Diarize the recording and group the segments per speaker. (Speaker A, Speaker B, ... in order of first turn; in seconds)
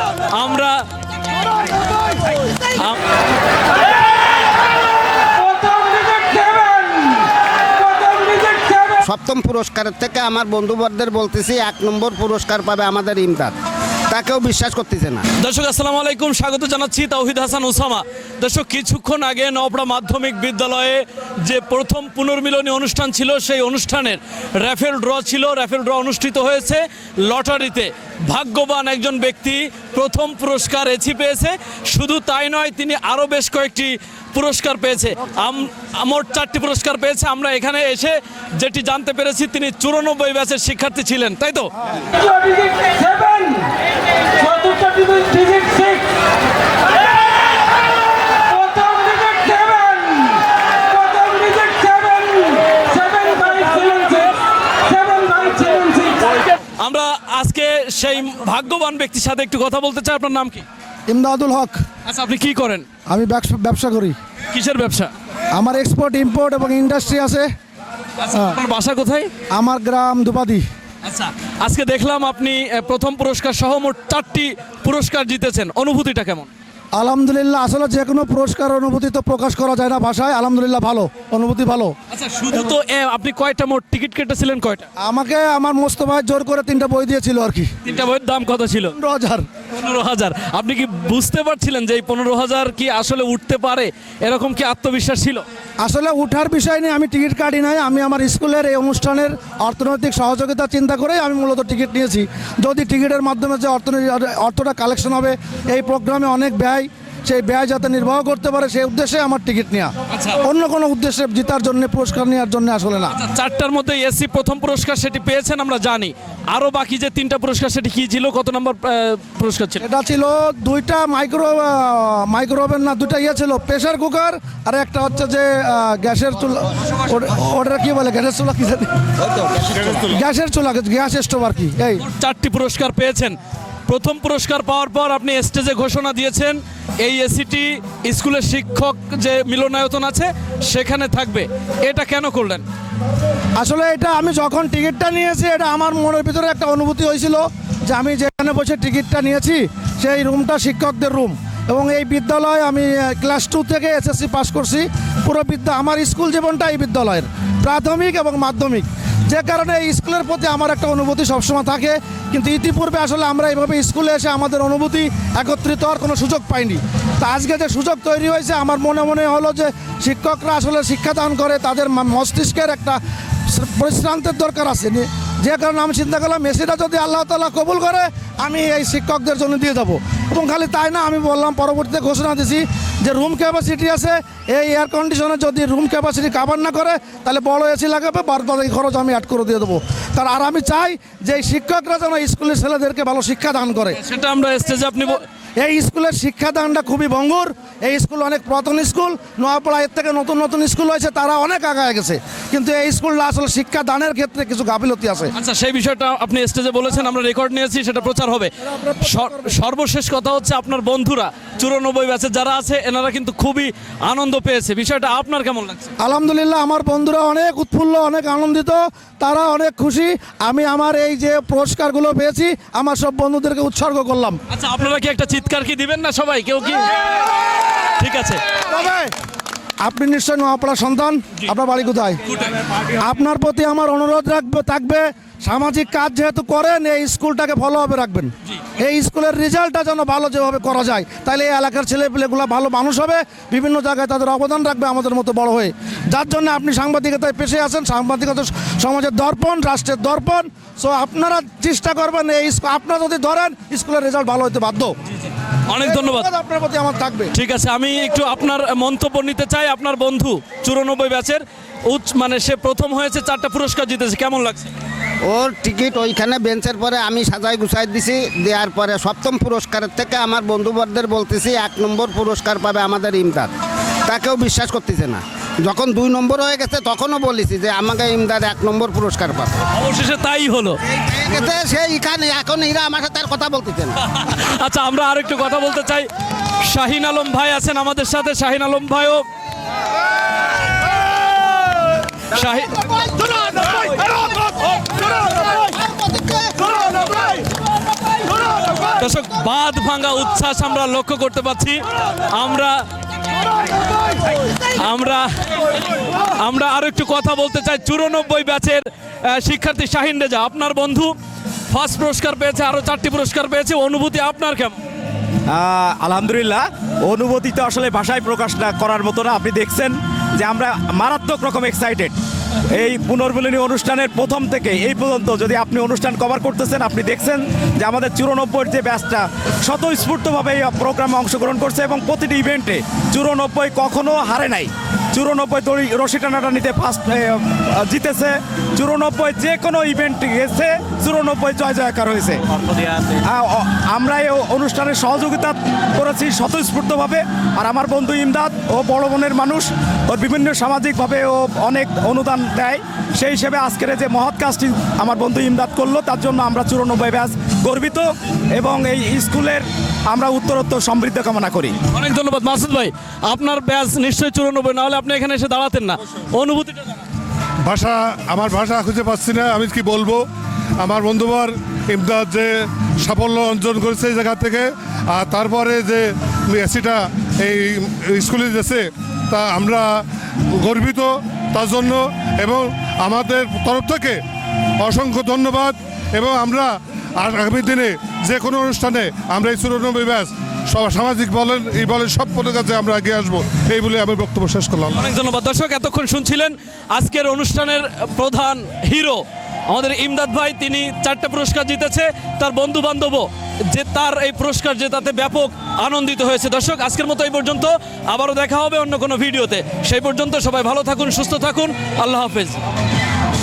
Speaker A: 0.3-0.8, 2.8-3.0, 5.8-6.7, 15.4-43.7, 44.4-46.0, 48.5-50.3, 51.1-54.3, 54.9-60.6, 62.1-62.9, 64.5-65.1, 68.2-69.3, 71.0-76.5, 82.1-84.9, 87.8-89.0, 89.7-95.4, 110.1-110.4, 113.1-119.8, 132.1-133.4, 133.9-142.6, 194.0-195.2, 205.3-208.5, 209.0-215.9, 224.5-226.9, 228.0-228.4, 232.3-232.6, 255.7-256.3, 257.3-264.7, 279.7-280.8, 284.1-286.1, 286.7-289.2, 292.3-292.9, 298.9-302.8, 304.6-305.3, 306.2-311.1, 311.7-314.8, 361.9-367.0, 394.9-412.6
Speaker B: 9.0-13.6, 14.1-15.2, 265.3-273.5, 274.1-279.6, 280.9-284.0, 293.2-293.8, 295.2-297.2
Speaker C: 61.1-61.8, 63.1-64.2, 65.5-67.5, 68.3-68.6, 69.5-70.6, 77.0-81.9, 85.0-87.7, 89.0-89.5, 95.8-109.9, 110.4-113.2, 119.8-128.9, 130.0-132.0, 143.6-194.0, 195.6-205.3, 208.7-209.6, 216.0-224.4, 228.7-229.1, 229.8-232.2, 233.0-254.9, 255.8-257.3
Speaker D: 129.8-130.0, 367.7-370.2, 370.8-372.5, 373.0-379.9, 380.6-384.2, 384.8-395.0
Speaker E: 315.5-322.1, 322.7-358.1, 358.6-361.8